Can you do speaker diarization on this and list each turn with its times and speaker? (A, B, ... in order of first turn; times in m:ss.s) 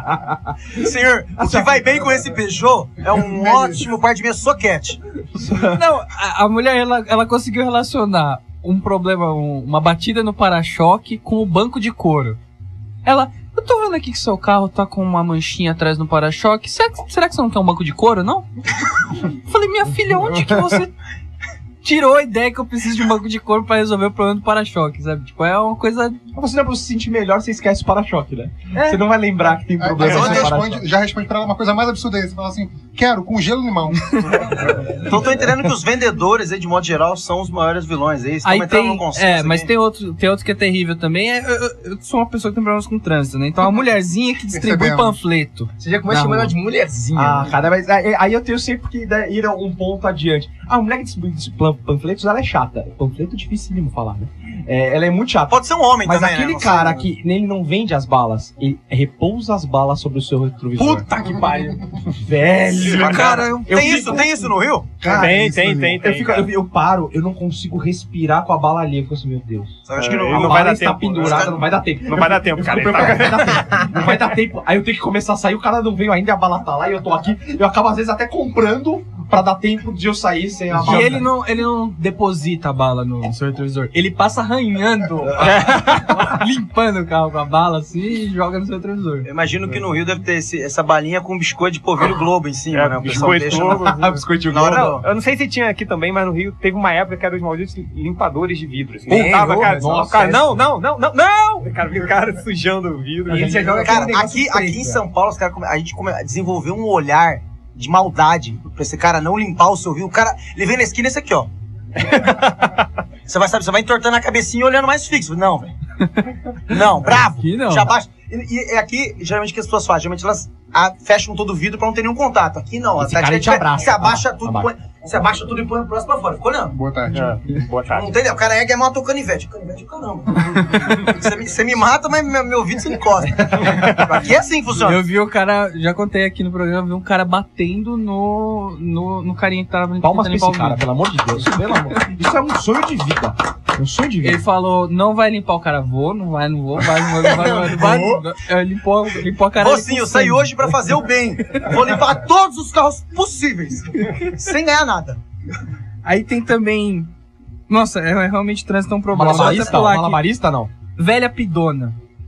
0:00.8-0:05.0 A
0:01.4-0:01.8 B
0:03.2-0:03.8 C
0:05.5-0:12.4 D
0:13.0-0:18.5 D
0:19.2-0:20.9 D
0:21.8-0:26.2 D
0:26.3-0:30.8 B
0:29.8-0:35.1 C
0:30.0-0:30.6 A
0:35.0-0:39.7 A
0:38.4-0:46.5 D
0:44.5-0:45.2 C
0:45.8-0:47.5 E
0:47.2-1:04.5 B
0:55.5-0:57.1 A
1:02.8-1:05.0 A
1:03.0-1:03.9 D
1:05.0-1:06.0 C
1:05.0-1:21.3 B
1:05.1-1:06.5 F
1:09.9-1:11.6 A
1:10.0-1:11.6 F
1:12.1-1:13.8 F
1:20.8-1:29.3 D
1:25.4-1:26.0 F
1:29.2-1:35.0 A
1:32.7-1:43.9 F
1:33.0-1:35.0 B
1:39.1-1:40.4 E
1:39.1-1:40.6 B
1:43.3-1:45.0 E
1:43.7-1:51.5 A
1:52.0-1:52.8 F
1:53.3-1:55.7 A
1:56.7-2:06.7 A
1:56.7-1:57.9 D
2:03.0-2:04.7 B
2:06.7-2:07.4 C
2:07.1-2:08.1 F
2:07.9-2:15.0 A
2:14.7-2:20.8 D
2:20.0-2:24.4 B
2:24.2-2:30.6 D
2:27.3-2:28.2 A
2:29.6-2:35.2 A
2:36.0-2:37.1 D
2:37.7-2:40.2 D
2:39.1-2:40.7 B
2:41.0-2:42.0 D